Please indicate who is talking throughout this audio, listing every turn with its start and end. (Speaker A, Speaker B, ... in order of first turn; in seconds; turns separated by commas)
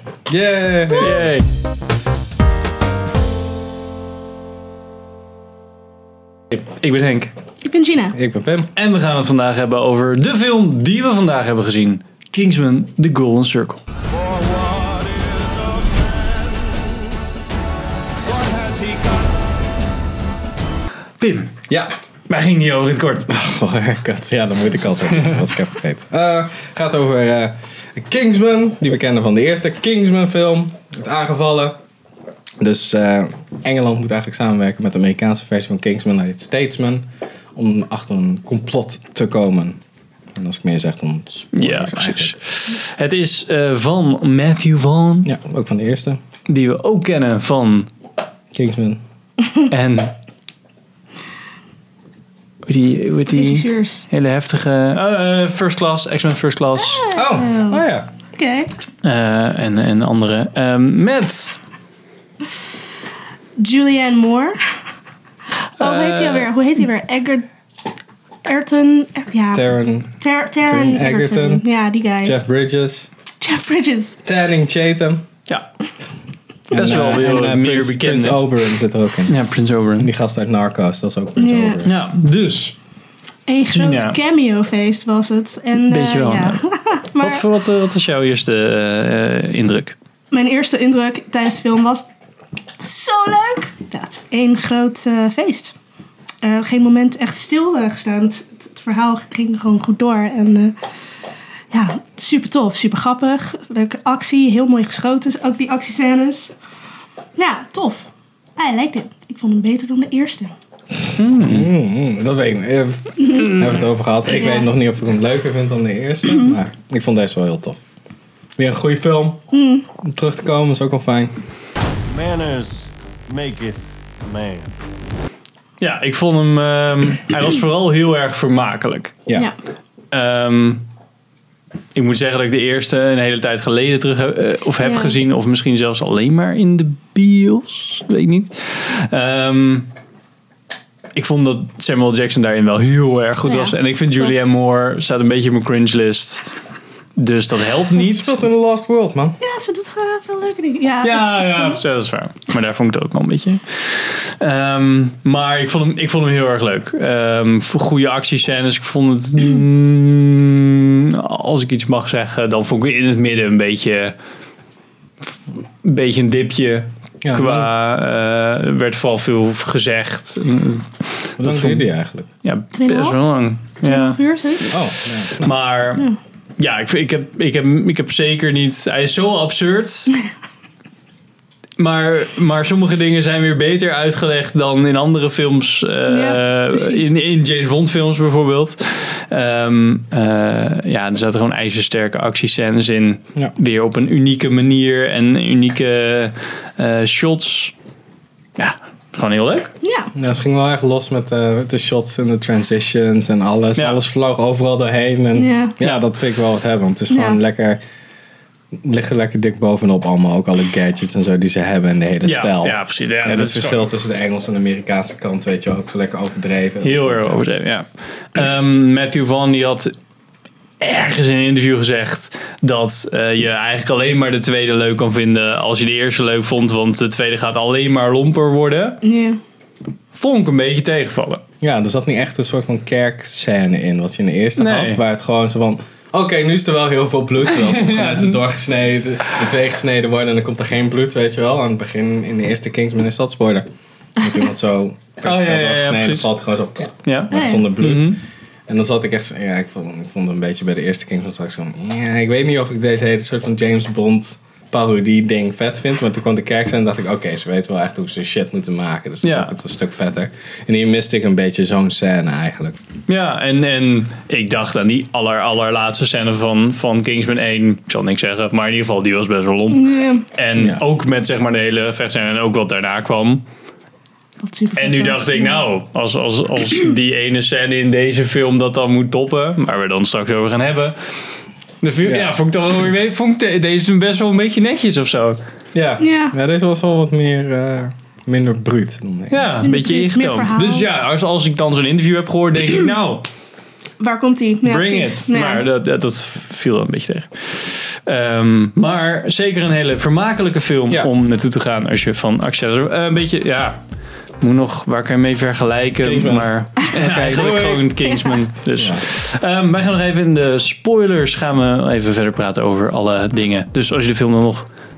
Speaker A: 0.3-1.3, Speaker B: 1.0-1.4, Speaker B: 6.5-7.3, Speaker C: 7.6-8.1, Speaker A: 8.1-8.7, Speaker B: 8.8-13.8, Speaker D: 14.3-17.0, Speaker D: 18.3-19.2, Speaker B: 21.2-21.5, Speaker B: 22.3-23.3, Speaker A: 23.3-31.8, Speaker A: 32.6-37.0, Speaker A: 37.5-39.8, Speaker A: 40.4-42.4, Speaker B: 41.5-45.3, Speaker A: 45.2-46.2, Speaker B: 46.5-47.9, Speaker A: 48.5-49.0, Speaker B: 49.7-50.1, Speaker B: 52.6-57.0, Speaker C: 53.3-54.1, Speaker C: 56.8-57.8, Speaker A: 57.1-58.1, Speaker C: 58.4-58.7, Speaker B: 59.0-61.6, Speaker C: 63.6-64.6, Speaker B: 65.8-66.5, Speaker C: 65.8-67.5, Speaker C: 68.4-69.6, Speaker A: 69.5-71.6, Speaker C: 70.2-72.3, Speaker A: 72.2-73.1, Speaker C: 73.4-74.2, Speaker A: 74.2-75.2, Speaker B: 76.7-78.5, Speaker A: 76.7-79.3, Speaker B: 79.3-80.1, Speaker A: 80.0-82.0, Speaker C: 81.4-81.8, Speaker B: 81.8-82.7, Speaker C: 83.5-87.4, Speaker B: 83.7-84.2, Speaker B: 85.8-86.6, Speaker B: 87.2-90.0, Speaker C: 90.3-92.1, Speaker C: 92.8-95.7, Speaker C: 96.4-100.7, Speaker C: 101.7-106.5, Speaker C: 107.3-110.5, Speaker B: 111.2-111.7, Speaker A: 111.4-117.8, Speaker C: 114.4-114.7, Speaker A: 118.6-119.4, Speaker C: 119.5-119.9, Speaker A: 120.0-121.3, Speaker D: 122.1-124.7, Speaker B: 125.8-129.2, Speaker B: 130.1-130.8, Speaker B: 131.9-139.9, Speaker C: 134.8-135.1, Speaker B: 141.2-146.4, Speaker C: 143.4-144.3, Speaker B: 147.2-148.4, Speaker A: 147.9-149.4, Speaker C: 149.4-151.8, Speaker B: 151.0-164.1, Speaker B: 165.8-171.8, Speaker A: 167.2-167.7, Speaker A: 171.4-172.3, Speaker B: 172.4-174.2, Speaker C: 172.7-173.2, Speaker C: 173.8-174.7, Speaker A: 174.7-175.6, Speaker B: 175.4-180.2, Speaker B: 181.8-197.7, Speaker C: 186.1-187.0, Speaker B: 198.6-199.7, Speaker C: 199.8-200.1, Speaker A: 200.1-207.8, Speaker C: 205.3-205.8, Speaker C: 207.1-207.4, Speaker A: 208.8-217.4, Speaker B: 212.2-213.8, Speaker B: 216.8-219.9, Speaker B: 220.8-229.0, Speaker C: 229.0-229.4, Speaker B: 230.1-231.4, Speaker A: 231.6-243.7, Speaker B: 234.6-235.0, Speaker B: 237.5-238.4, Speaker A: 244.2-262.8, Speaker B: 245.2-246.3, Speaker B: 247.0-248.2, Speaker C: 247.3-247.7, Speaker B: 259.2-259.5, Speaker B: 263.1-273.4, Speaker C: 269.7-270.2, Speaker A: 270.6-270.8, Speaker C: 274.4-275.7, Speaker B: 274.8-281.0, Speaker B: 281.8-285.4, Speaker A: 282.0-282.3, Speaker A: 285.7-289.7, Speaker C: 286.0-286.3, Speaker B: 289.3-293.2, Speaker C: 289.6-290.9, Speaker C: 294.0-295.6, Speaker B: 294.6-303.8, Speaker B: 304.4-314.6, Speaker A: 306.0-307.9, Speaker A: 308.8-309.0